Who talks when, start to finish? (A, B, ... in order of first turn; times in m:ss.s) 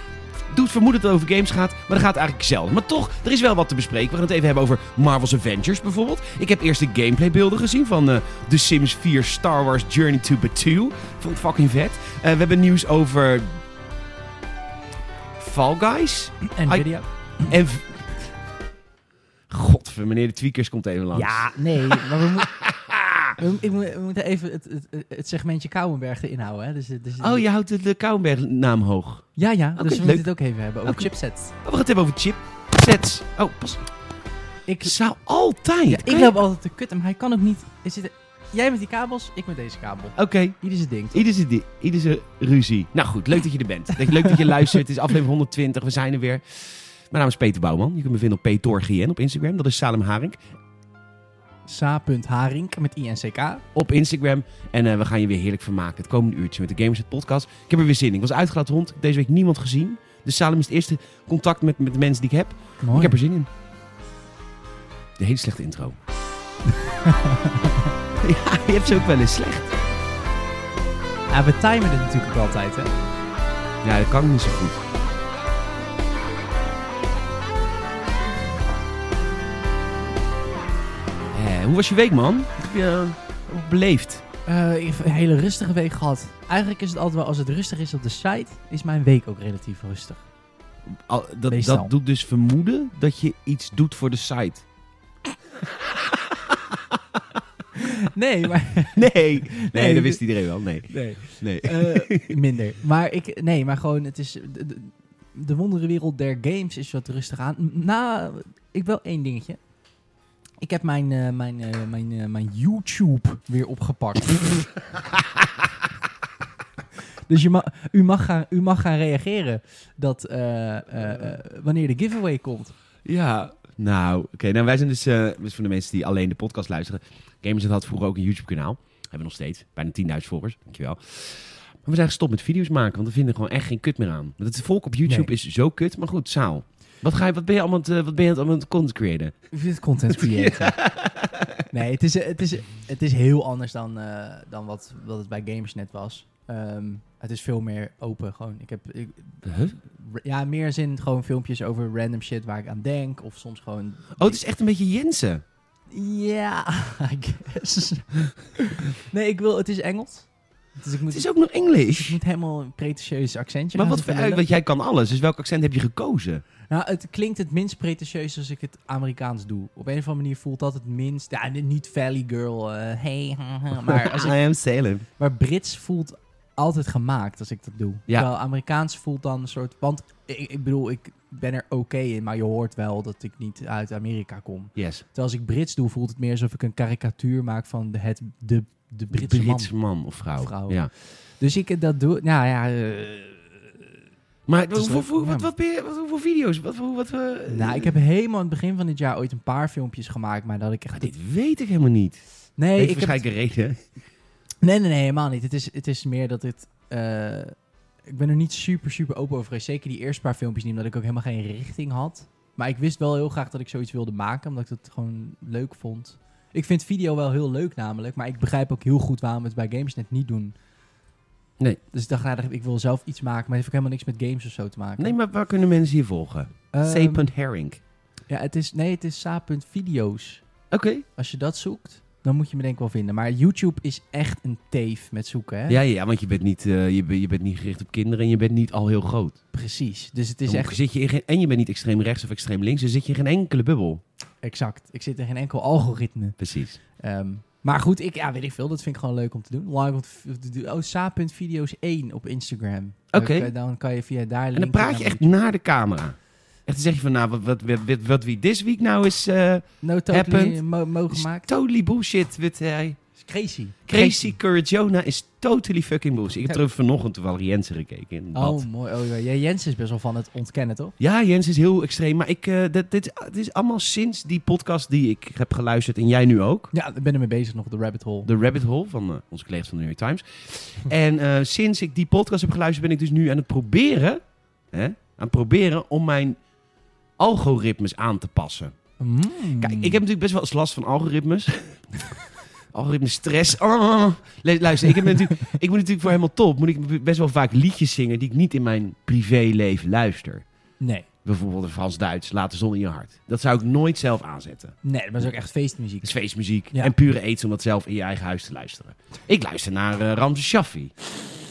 0:00.5-0:13.6 A
0:15.4-0:18.0 A
0:16.5-0:17.1 B
0:19.5-0:23.4 A
0:21.1-0:22.6 B
0:23.4-0:27.4 B
0:27.2-0:30.3 A
0:29.4-0:31.5 B
0:30.9-0:31.1 A
0:31.6-0:33.9 A
0:34.7-0:35.0 B
0:34.8-0:36.3 A
0:35.9-0:41.2 B
0:40.2-0:40.6 A
0:41.1-0:50.4 A
0:51.7-0:53.6 B
0:53.7-1:03.5 A
1:02.8-1:03.2 B
1:05.2-1:06.0 A
1:06.8-1:07.9 B
1:08.2-1:09.8 A
1:11.3-1:12.9 B
1:13.8-1:14.8 A
1:21.3-1:24.2 A
1:24.5-1:30.2 B
1:31.1-1:34.6 A
1:31.5-1:31.9 B
1:35.6-1:37.4 A
1:37.8-1:49.6 B
1:38.9-1:42.4 A
1:50.6-1:54.6 B
1:57.3-2:02.8 B
2:03.0-2:19.4 A
2:19.5-2:20.8 B
2:20.1-2:21.6 A
2:21.7-2:34.4 B
2:29.4-2:29.8 A
2:34.2-2:35.4 A
2:35.9-2:44.4 B
2:41.1-2:42.2 A
2:43.8-2:46.4 A
2:46.7-2:54.4 B
2:53.8-2:55.0 A
2:55.2-3:09.7 B
3:04.8-3:05.0 A
3:09.1-3:10.9 A
3:10.4-3:13.7 B
3:14.5-3:17.9 A
3:14.7-3:15.5 B
3:17.5-3:21.1 B
3:20.9-3:22.2 A
3:22.6-3:23.2 B
3:22.8-3:23.8 A
3:24.6-3:27.5 B
3:28.1-3:40.5 B
3:41.9-3:45.2 B
3:45.0-3:47.8 A
3:46.7-3:47.3 B
3:48.3-3:50.4 B
3:50.7-3:51.0 A
3:51.2-3:55.8 B
3:55.7-3:59.4 A
3:59.5-4:00.8 B
4:00.5-4:04.0 A
4:04.4-4:06.4 B
4:06.4-4:06.8 A
4:07.0-4:15.3 B
4:13.1-4:13.5 A
4:14.6-4:23.0 A
4:19.8-4:21.5 B
4:23.2-4:24.3 B
4:23.9-4:28.6 A
4:28.3-4:31.0 B
4:31.0-4:36.7 A
4:36.7-4:38.3 B
4:38.2-4:44.2 A
4:44.7-4:46.4 A
4:47.2-4:48.8 A
4:49.0-4:50.0 B
4:49.6-4:52.2 A
4:52.7-5:00.4 A
5:00.8-5:01.1 B
5:01.2-5:04.8 A
5:04.8-5:06.1 B
5:06.0-5:11.0 A